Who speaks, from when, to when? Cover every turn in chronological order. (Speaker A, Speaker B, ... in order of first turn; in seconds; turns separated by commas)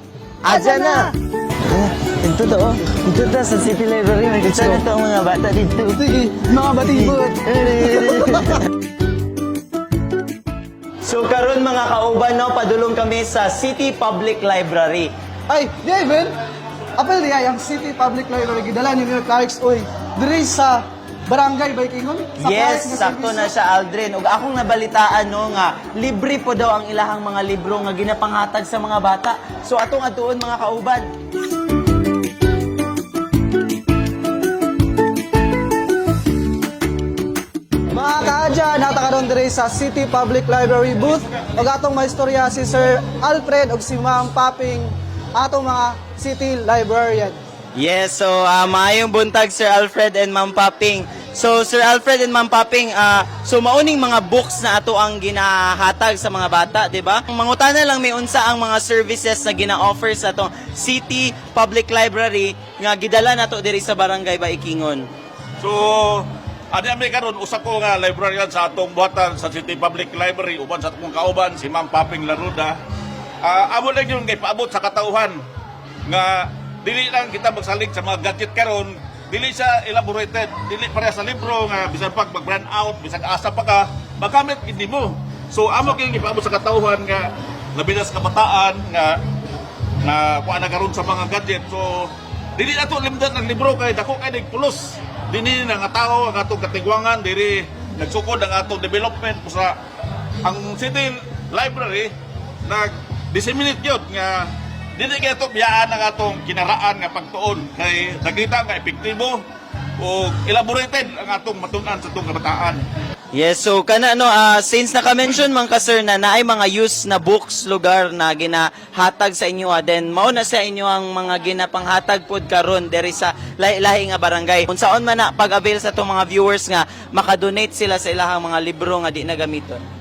Speaker A: 0.4-1.1, Speaker B: 0.5-1.1, Speaker A: 1.7-6.0, Speaker B: 6.0-8.5, Speaker A: 6.7-8.6, Speaker A: 11.0-15.1, Speaker B: 15.5-16.3, Speaker B: 17.0-23.4, Speaker A: 22.4-31.1, Speaker B: 37.9-47.4, Speaker A: 47.8-65.1, Speaker C: 65.6-72.8, Speaker C: 73.4-75.4, Speaker C: 76.1-89.2, Speaker C: 90.0-99.8, Speaker C: 100.4-102.1, Speaker C: 102.7-109.4, Speaker C: 110.0-112.8, Speaker A: 113.3-129.8